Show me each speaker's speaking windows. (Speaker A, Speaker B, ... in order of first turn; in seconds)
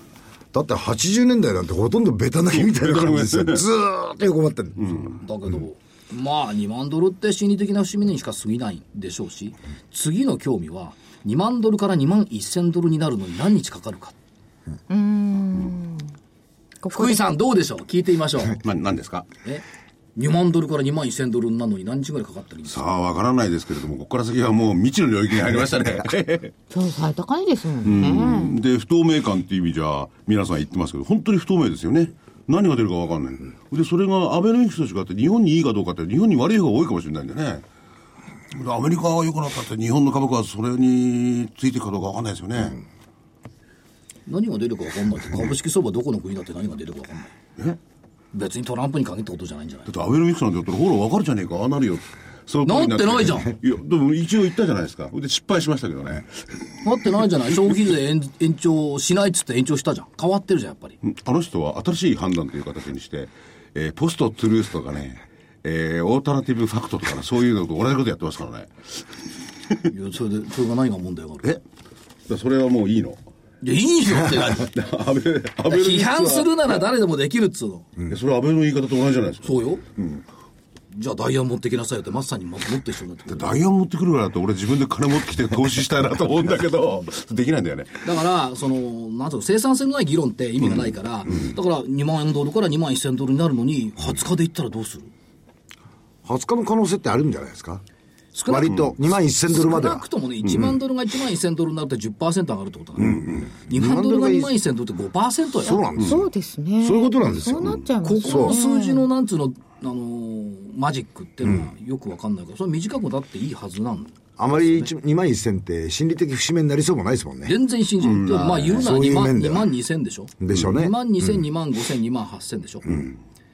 Speaker A: 0.5-5.1, 96.2-97.8, 98.5-100.0, 103.0-104.5, 105.6-106.3, 106.8-108.6, 114.4-117.6, 118.7-119.7, 120.4-121.0
Speaker B: 2.5-3.7, 4.8-5.2, 18.6-19.3, 22.7-26.5, 27.8-37.6, 38.5-42.8, 49.9-56.3, 61.0-69.0, 72.3-73.2, 74.3-76.9, 78.1-80.2, 83.3-88.1, 90.7-91.5, 98.6-98.9, 100.4-100.7, 103.1-103.5, 118.0-118.8
Speaker C: 5.2-14.2, 16.9-18.6, 20.2-22.8, 44.3-47.3, 48.3-49.9, 52.7-53.5, 56.8-61.0, 69.9-71.5, 73.6-74.7, 75.7-77.9, 79.4-79.8, 80.9-83.5, 88.0-95.1, 98.3-98.9, 99.5-105.8, 108.0-114.9, 117.5-123.1
Speaker D: 14.9-16.1, 16.8-17.2, 26.7-28.6, 106.0-109.1